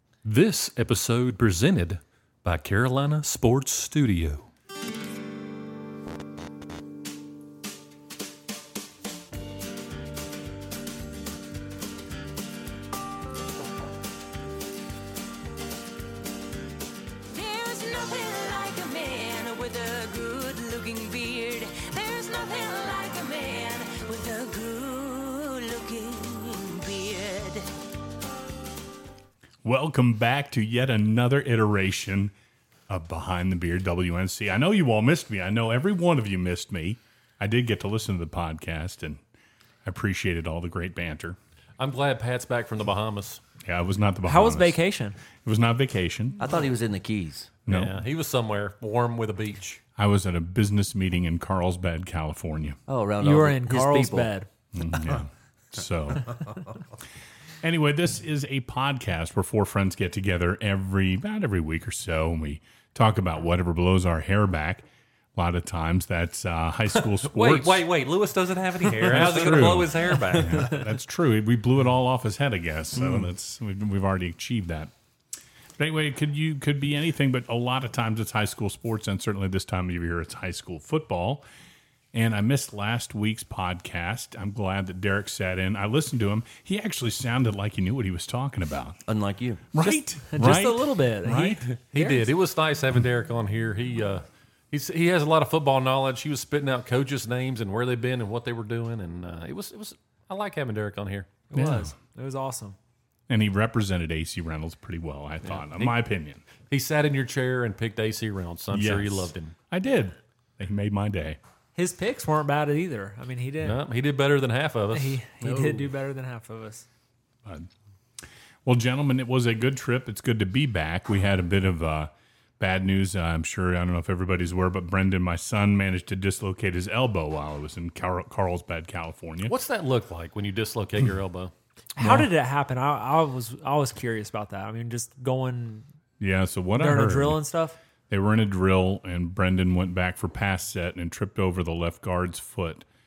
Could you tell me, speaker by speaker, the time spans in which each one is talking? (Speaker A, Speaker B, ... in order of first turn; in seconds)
Speaker A: 0.2-4.5, 41.8-43.4, 47.7-49.8, 66.9-70.8, 91.7-101.4, 105.4-106.0, 106.7-109.5, 113.6-115.2, 129.5-131.5
Speaker B: 17.3-27.7
Speaker C: 29.6-32.3, 32.9-39.2, 39.8-41.4, 43.6-44.8, 45.4-46.5, 47.7-48.0, 50.0-52.8, 54.7-56.4, 57.6-67.8, 69.0-74.9, 75.8-81.4, 82.1-89.0, 89.7-91.6, 101.5-101.9, 103.3-106.4, 108.7-111.4, 118.6-129.6, 132.0-132.3, 136.2-137.4, 138.1-142.9
Speaker D: 44.3-45.2, 53.2-54.5, 89.8-92.3, 101.5-102.8, 111.8-113.8, 114.9-116.8, 132.0-135.9, 136.8-137.8
Speaker E: 46.4-47.5, 52.9-54.3, 89.1-89.7, 115.4-115.9